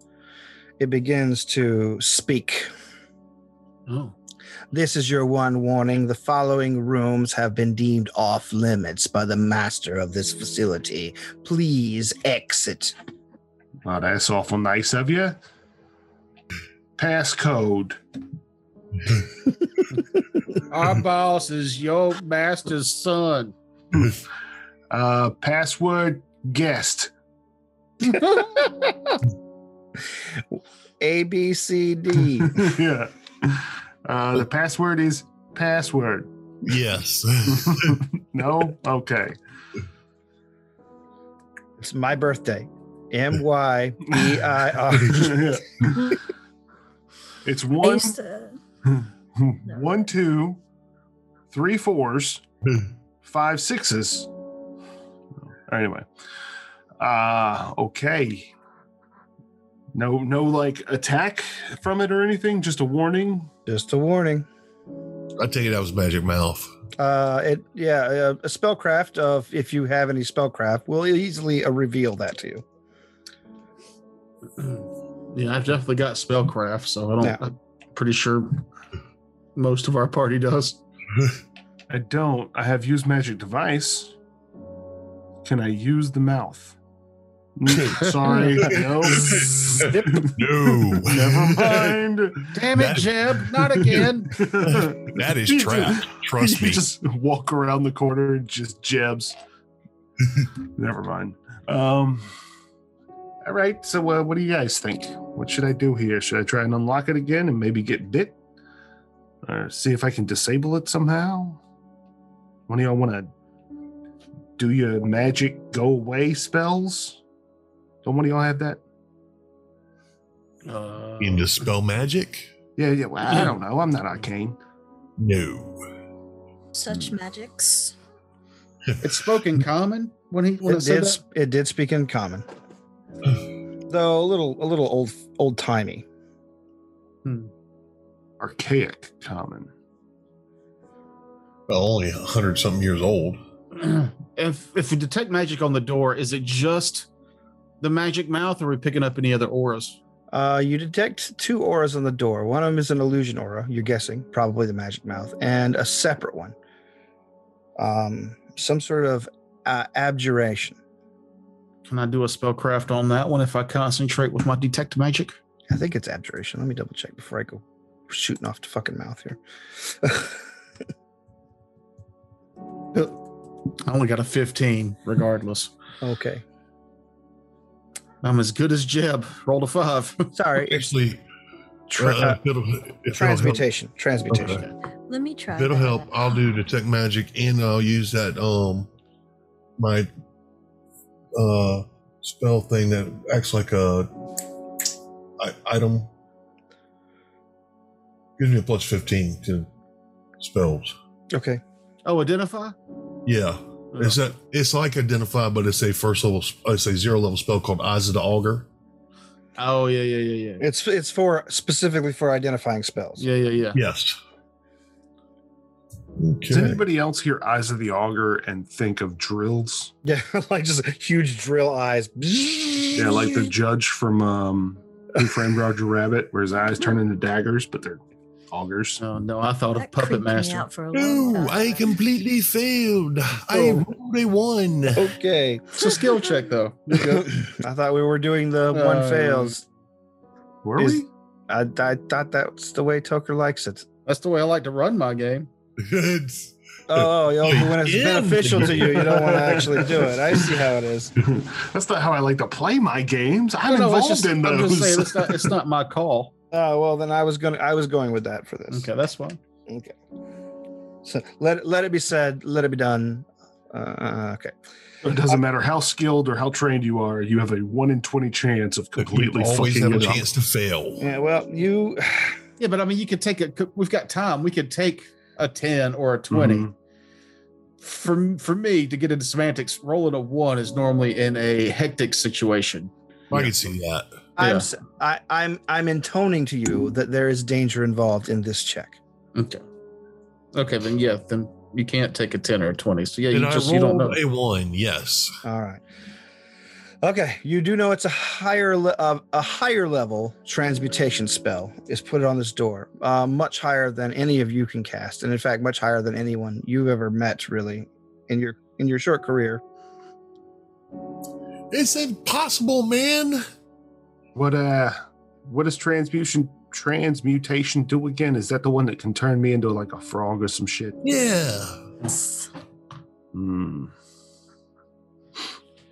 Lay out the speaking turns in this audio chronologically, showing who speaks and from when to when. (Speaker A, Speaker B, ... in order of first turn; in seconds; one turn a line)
Speaker A: 0.8-2.7
Speaker B: 3.9-4.1
Speaker A: 4.7-12.9
Speaker C: 13.8-15.4
Speaker C: 17.0-18.0
Speaker B: 20.7-23.5
Speaker C: 24.9-27.1
Speaker B: 28.0-28.8
Speaker A: 30.5-32.7
Speaker C: 32.5-36.3
Speaker D: 36.6-38.0
Speaker C: 37.5-39.4
Speaker A: 41.8-45.9
Speaker C: 44.1-44.4
Speaker C: 44.9-46.1
Speaker C: 47.4-48.2
Speaker E: 47.8-48.6
Speaker C: 48.8-50.6
Speaker C: 51.5-52.4
Speaker C: 53.2-54.3
Speaker C: 55.7-56.0
Speaker C: 57.0-58.5
Speaker C: 59.9-63.5
Speaker A: 63.7-64.5
Speaker D: 65.4-66.7
Speaker A: 67.0-72.6
Speaker B: 74.6-78.6
Speaker B: 79.5-80.8
Speaker C: 81.9-84.1
Speaker C: 85.4-86.8
Speaker C: 87.5-92.5
Speaker B: 88.3-88.6
Speaker D: 88.6-92.0
Speaker B: 89.3-90.2
Speaker B: 92.5-94.4
Speaker D: 92.7-94.1
Speaker C: 93.9-99.3
Speaker D: 94.6-96.8
Speaker C: 100.8-102.2
Speaker C: 103.4-108.3
Speaker C: 109.4-111.6
Speaker C: 112.7-113.3
Speaker C: 114.6-117.2
Speaker C: 118.0-118.8
Speaker B: 120.7-121.7
Speaker D: 121.2-122.5
Speaker C: 122.8-124.6
Speaker D: 125.2-125.8
Speaker E: 126.7-127.9
Speaker B: 129.0-131.2
Speaker A: 130.6-132.4
Speaker A: 133.9-136.0
Speaker B: 137.2-137.5
Speaker C: 138.4-139.7
Speaker D: 141.7-143.4
Speaker B: 143.7-147.1
Speaker B: 147.8-150.0
Speaker A: 150.3-156.5
Speaker A: 157.8-160.8
Speaker B: 161.8-165.3
Speaker A: 165.7-170.4
Speaker B: 173.8-175.7
Speaker A: 176.0-176.4
Speaker B: 178.2-180.3
Speaker A: 180.3-180.9
Speaker D: 180.7-181.2
Speaker A: 181.9-182.4
Speaker D: 182.0-183.6
Speaker A: 183.1-184.7
Speaker D: 184.3-184.6
Speaker E: 185.1-186.3
Speaker D: 185.5-188.9
Speaker D: 189.8-190.1
Speaker D: 191.3-194.1
Speaker D: 195.4-196.1
Speaker D: 198.4-199.7
Speaker D: 200.4-200.9
Speaker A: 201.3-201.6
Speaker B: 202.0-202.7
Speaker D: 203.2-208.7
Speaker B: 203.9-204.2
Speaker B: 209.6-210.7
Speaker A: 210.6-213.2
Speaker B: 213.2-213.8
Speaker D: 213.7-214.2
Speaker D: 216.2-216.8
Speaker C: 216.5-219.9
Speaker A: 220.0-223.5
Speaker C: 222.9-229.0
Speaker B: 229.0-230.7
Speaker E: 229.8-231.8
Speaker D: 230.9-235.2
Speaker B: 233.5-233.8
Speaker A: 234.9-235.9
Speaker B: 235.7-237.3
Speaker A: 237.1-239.7
Speaker B: 238.7-239.6
Speaker C: 240.6-241.1
Speaker A: 240.8-243.8
Speaker B: 244.1-245.5
Speaker D: 245.8-249.3
Speaker A: 246.9-251.1
Speaker C: 248.8-250.7
Speaker C: 251.2-255.5
Speaker B: 253.7-256.3
Speaker A: 256.5-258.9
Speaker B: 258.7-259.4
Speaker A: 259.7-259.9
Speaker A: 261.0-264.5
Speaker C: 265.0-270.3
Speaker D: 269.0-271.0
Speaker A: 271.0-272.4
Speaker B: 272.6-276.7
Speaker C: 276.3-276.7
Speaker B: 277.8-282.9
Speaker D: 283.3-284.1
Speaker A: 284.4-289.0
Speaker B: 284.4-284.7
Speaker B: 289.3-289.6
Speaker B: 290.5-294.2
Speaker D: 293.3-295.4
Speaker A: 295.4-295.8
Speaker A: 297.0-309.6
Speaker D: 311.7-313.4
Speaker C: 314.3-321.0
Speaker D: 321.0-321.8
Speaker C: 323.3-323.9